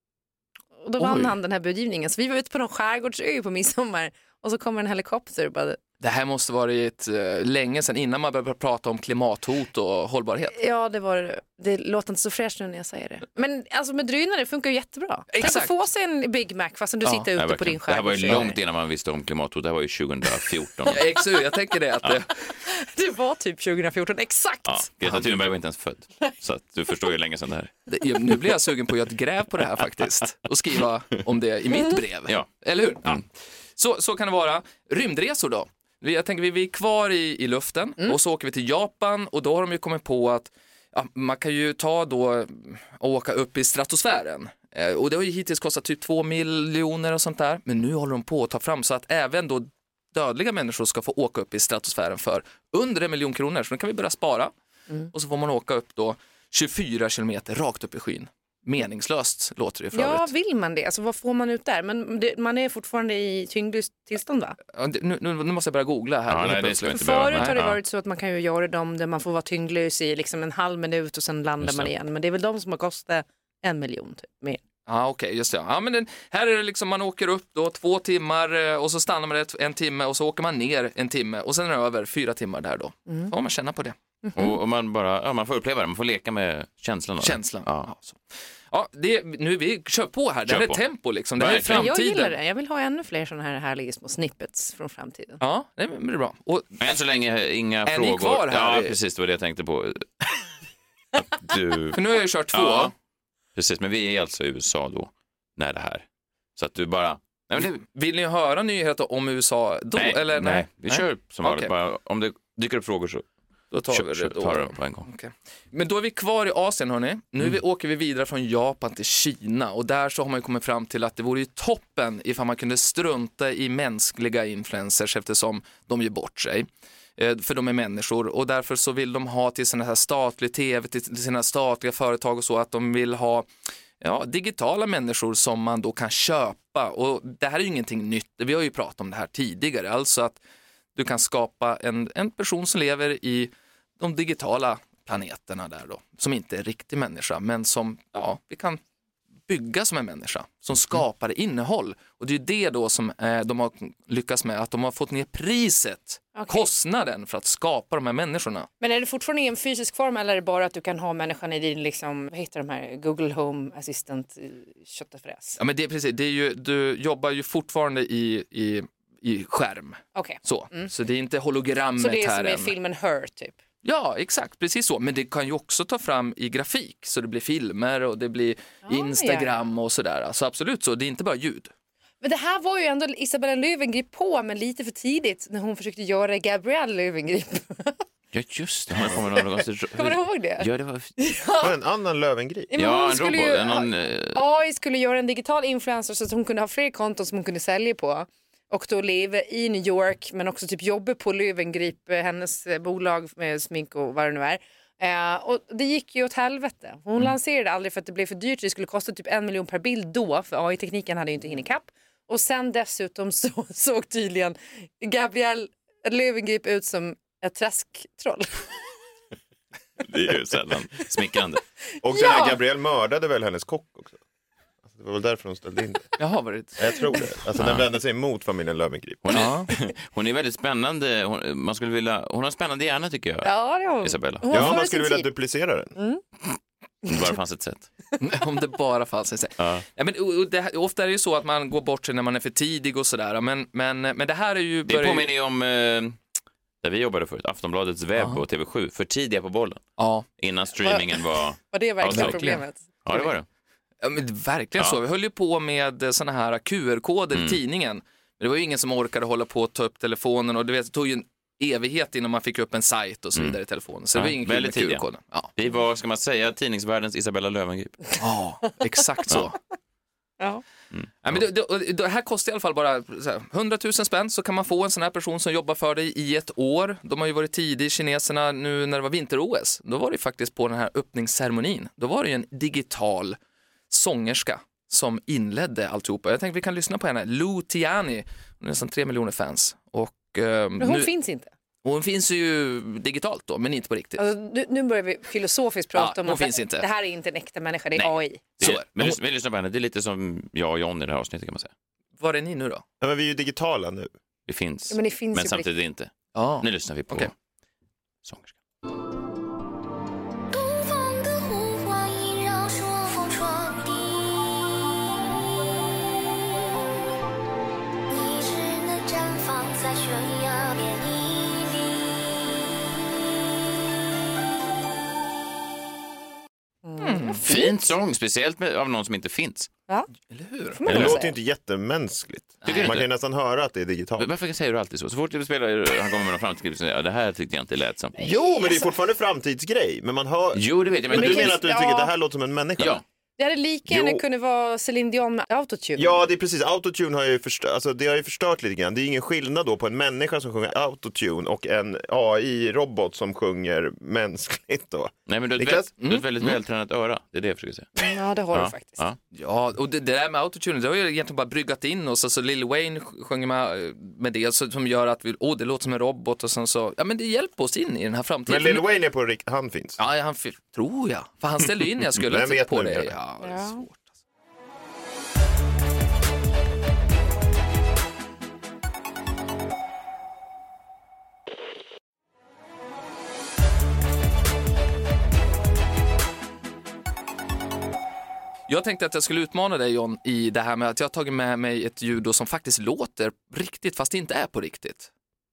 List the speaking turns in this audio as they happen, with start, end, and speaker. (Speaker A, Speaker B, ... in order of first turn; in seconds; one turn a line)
Speaker A: 0.8-5.8
Speaker B: 1.0-1.4
Speaker B: 6.0-10.6
Speaker A: 10.5-18.6
Speaker B: 15.3-15.7
Speaker C: 17.4-21.0
Speaker B: 20.9-22.4
Speaker A: 22.6-24.9
Speaker C: 24.6-27.7
Speaker B: 27.9-33.2
Speaker B: 33.8-54.5
Speaker B: 55.1-60.3
Speaker A: 59.9-64.6
Speaker B: 64.7-67.6
Speaker C: 66.3-67.8
Speaker A: 66.9-74.6
Speaker C: 71.6-71.9
Speaker B: 74.9-84.0
Speaker A: 83.1-83.3
Speaker A: 84.2-84.6
Speaker C: 84.3-87.9
Speaker B: 87.2-92.3
Speaker C: 90.5-90.8
Speaker C: 91.4-91.9
Speaker A: 91.5-95.4
Speaker B: 95.4-96.8
Speaker C: 96.8-100.3
Speaker B: 97.9-99.0
Speaker C: 101.2-102.0
Speaker B: 101.9-102.9
Speaker C: 102.5-102.9
Speaker C: 103.5-106.0
Speaker C: 106.6-107.8
Speaker B: 107.6-111.7
Speaker C: 110.0-113.3
Speaker B: 113.7-133.5
Speaker C: 113.9-115.1
Speaker B: 134.0-140.4
Speaker B: 140.9-148.8
Speaker B: 149.5-158.7
Speaker A: 156.3-156.7
Speaker A: 158.8-165.6
Speaker B: 165.6-172.7
Speaker A: 170.2-170.9
Speaker A: 172.0-173.6
Speaker B: 173.8-181.7
Speaker A: 178.9-179.5
Speaker A: 182.2-188.1
Speaker C: 188.3-191.2
Speaker A: 190.0-191.8
Speaker D: 191.6-192.7
Speaker A: 192.7-218.7
Speaker C: 192.8-194.4
Speaker C: 220.0-221.6
Speaker D: 222.0-224.2
Speaker A: 222.1-222.6
Speaker D: 224.9-226.1
Speaker B: 226.2-226.8
Speaker D: 226.8-229.5
Speaker C: 227.6-227.9
Speaker C: 229.2-234.8
Speaker B: 229.3-229.7
Speaker A: 233.4-235.3
Speaker D: 234.5-235.9
Speaker A: 236.0-236.2
Speaker C: 237.1-237.9
Speaker B: 238.2-245.3
Speaker C: 239.6-239.9
Speaker C: 244.9-246.2
Speaker C: 246.8-249.9
Speaker B: 250.0-250.3
Speaker C: 250.4-253.5
Speaker A: 250.8-253.3
Speaker B: 252.1-252.6
Speaker B: 254.0-265.5
Speaker C: 257.3-257.6
Speaker C: 264.1-265.1
Speaker C: 265.6-268.1
Speaker B: 268.2-269.6
Speaker A: 270.4-270.6
Speaker C: 270.9-271.4
Speaker B: 271.2-283.4
Speaker B: 283.9-291.1
Speaker A: 290.8-291.5
Speaker B: 291.8-294.2
Speaker A: 294.2-298.4
Speaker B: 295.9-296.9
Speaker B: 298.0-299.2
Speaker C: 298.6-301.7
Speaker B: 302.2-302.8
Speaker D: 303.0-304.1
Speaker C: 304.5-307.3
Speaker A: 304.9-305.7
Speaker B: 306.4-307.3
Speaker C: 308.2-308.6
Speaker E: 310.5-314.9
Speaker E: 318.1-322.1
Speaker A: 326.9-327.8
Speaker B: 327.0-327.4
Speaker C: 327.4-329.7
Speaker B: 330.3-330.8
Speaker A: 330.7-331.4
Speaker D: 330.9-334.3
Speaker C: 330.9-331.2
Speaker B: 332.6-333.0
Speaker C: 332.7-333.1
Speaker C: 334.2-338.2
Speaker D: 338.2-343.0
Speaker A: 338.2-338.9
Speaker C: 340.5-341.6
Speaker A: 341.1-342.1
Speaker C: 342.8-343.0
Speaker A: 343.4-346.2
Speaker D: 343.9-344.2
Speaker D: 346.0-355.9
Speaker C: 355.3-357.9
Speaker B: 356.0-356.5
Speaker A: 358.0-359.0
Speaker C: 358.5-359.2
Speaker B: 359.3-368.9
Speaker D: 368.5-370.0
Speaker B: 370.0-374.1
Speaker D: 372.2-373.1
Speaker A: 373.4-373.8
Speaker B: 388.7-395.1